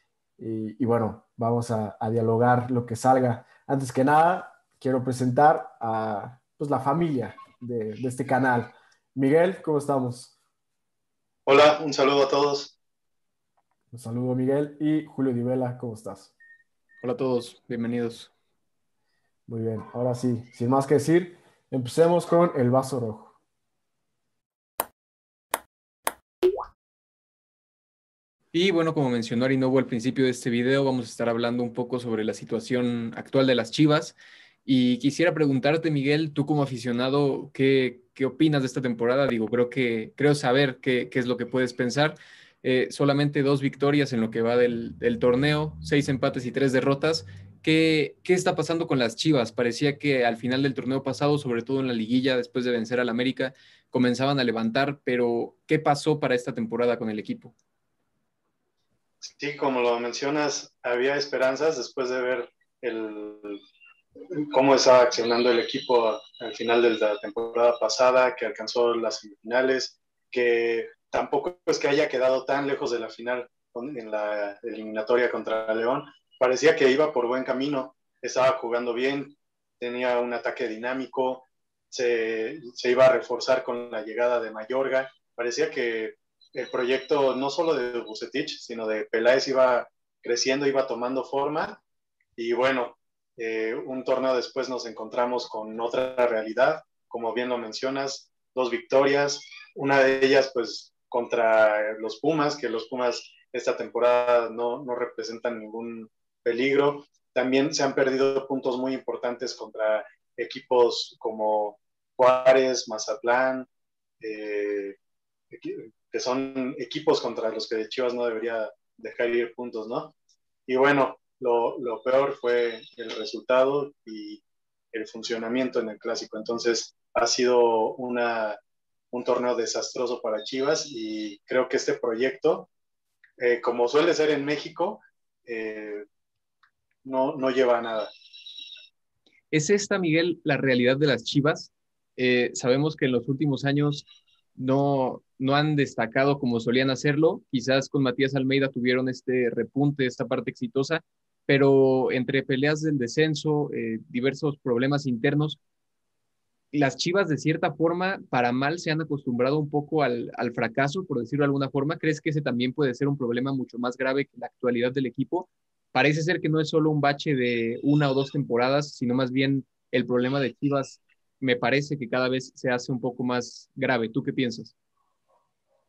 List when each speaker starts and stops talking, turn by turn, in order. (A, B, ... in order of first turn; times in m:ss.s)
0:00.4-0:10.3 A
0:11.5-0:12.8 B
0:13.9-0:16.3 A
0:17.0-0:18.3 C
0:19.5-0:23.4 A
0:28.5-0:57.5 C
0:59.2-1:03.6 B
1:04.3-1:31.8 B
1:32.4-1:53.7 B
1:54.2-1:55.0 B
1:55.5-2:00.1 B
2:00.7-2:04.4 B
2:04.9-2:08.6 B
2:09.1-2:12.7 B
2:13.4-2:16.0 B
2:17.0-2:18.1 B
2:19.5-2:35.6 C
2:36.7-2:54.7 C